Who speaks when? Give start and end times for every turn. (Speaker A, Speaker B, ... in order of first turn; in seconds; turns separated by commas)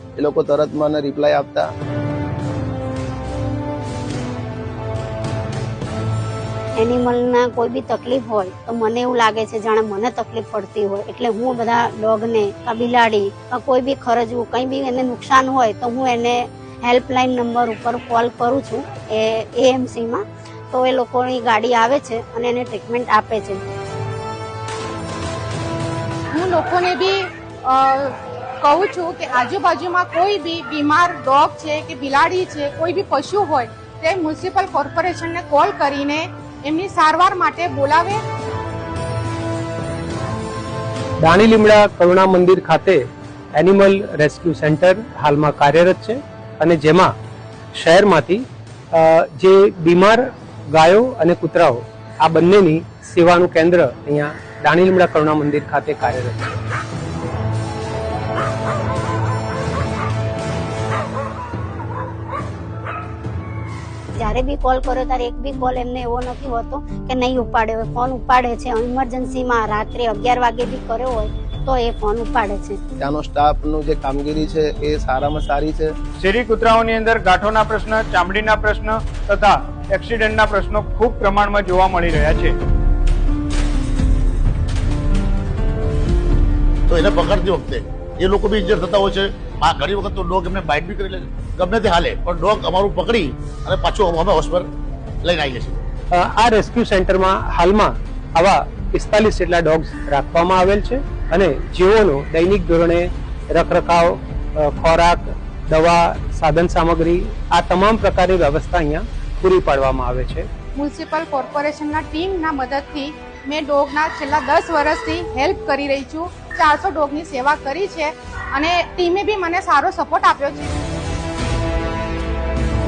Speaker A: 0.1-1.7, Speaker B: 6.8-23.6, Speaker C: 26.3-38.2, Speaker D: 41.2-43.0, Speaker D: 43.5-47.1, Speaker D: 47.7-56.6, Speaker B: 64.2-72.8, Speaker A: 73.0-75.9, Speaker E: 76.2-82.6, Speaker F: 86.9-94.6, Speaker F: 95.2-95.7, Speaker D: 96.1-110.5, Speaker C: 110.7-120.7